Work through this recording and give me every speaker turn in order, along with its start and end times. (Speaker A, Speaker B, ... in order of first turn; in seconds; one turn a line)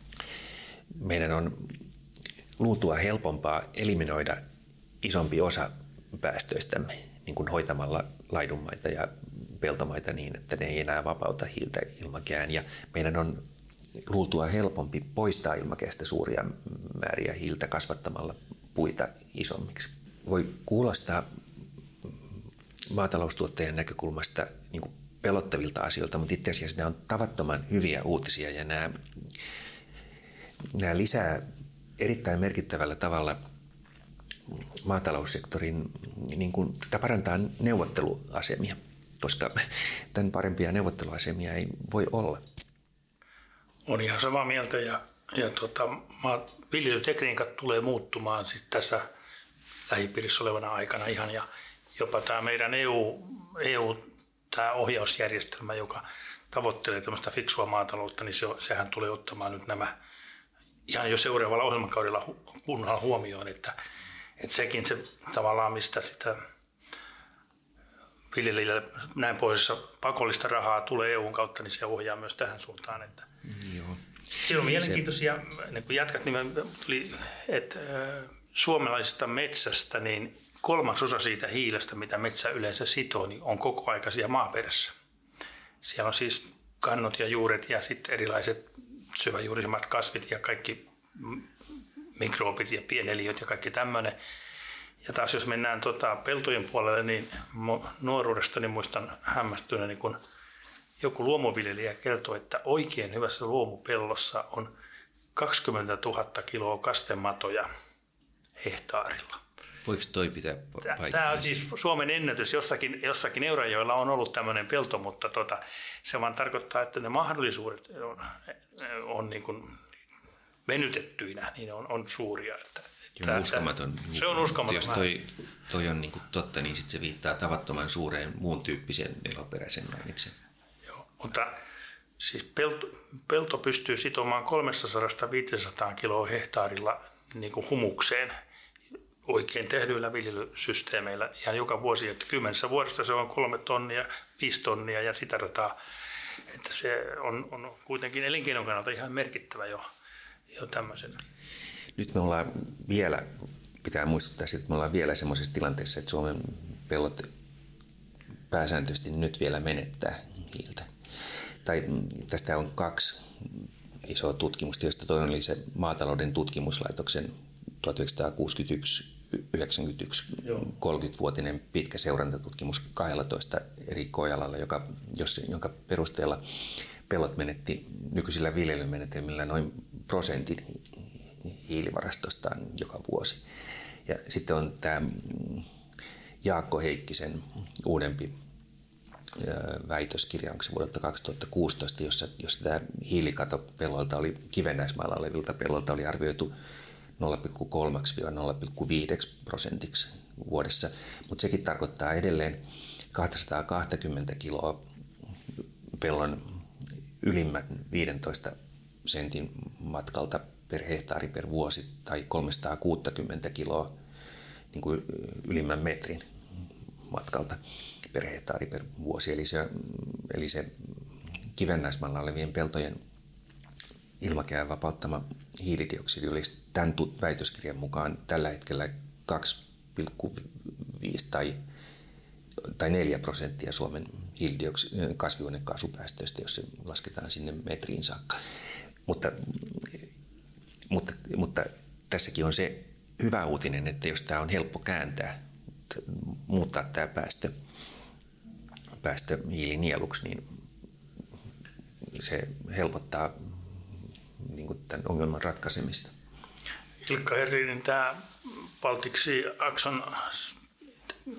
Speaker A: 0.9-1.7
Speaker A: 2.6-4.4
Speaker A: 5.0-13.4
Speaker A: 14.1-21.2
Speaker A: 22.9-28.9
Speaker A: 30.7-31.4
Speaker A: 32.0-33.4
Speaker A: 34.8-39.6
Speaker A: 40.1-42.4
Speaker B: 43.9-49.0
Speaker B: 49.9-59.9
Speaker B: 60.9-63.7
Speaker B: 64.4-66.4
Speaker B: 68.3-73.2
Speaker A: 73.5-75.0
Speaker B: 74.4-84.9
Speaker B: 85.8-91.5
Speaker B: 92.2-94.1
Speaker B: 95.0-100.2
Speaker B: 101.0-104.7
Speaker B: 105.3-107.7
Speaker B: 108.6-109.4
Speaker A: 109.8-111.5
Speaker B: 110.8-119.8
Speaker B: 120.7-125.1
Speaker A: 123.2-130.3
Speaker B: 131.1-131.6
Speaker B: 132.2-138.3
Speaker B: 139.2-145.7
Speaker B: 146.5-149.8
Speaker B: 150.5-151.2
Speaker A: 151.9-153.2
Speaker A: 153.8-157.3
Speaker A: 158.5-160.9
Speaker A: 161.6-167.3
Speaker A: 167.8-183.4
Speaker A: 184.1-185.7
Speaker A: 186.4-188.3
Speaker A: 189.3-196.5
Speaker A: 197.2-202.6
Speaker A: 203.1-204.8
Speaker A: 206.0-206.6
Speaker A: 207.2-213.9
Speaker A: 214.7-216.2
Speaker A: 217.1-217.6
Speaker A: 218.1-220.7
Speaker A: 221.5-223.0
Speaker A: 224.2-231.6
Speaker A: 232.7-238.4
Speaker A: 239.1-240.0
Speaker A: 240.9-245.3
Speaker A: 245.9-247.5
Speaker A: 249.0-250.4
Speaker A: 252.0-253.3
Speaker A: 254.4-256.1
Speaker B: 257.0-260.6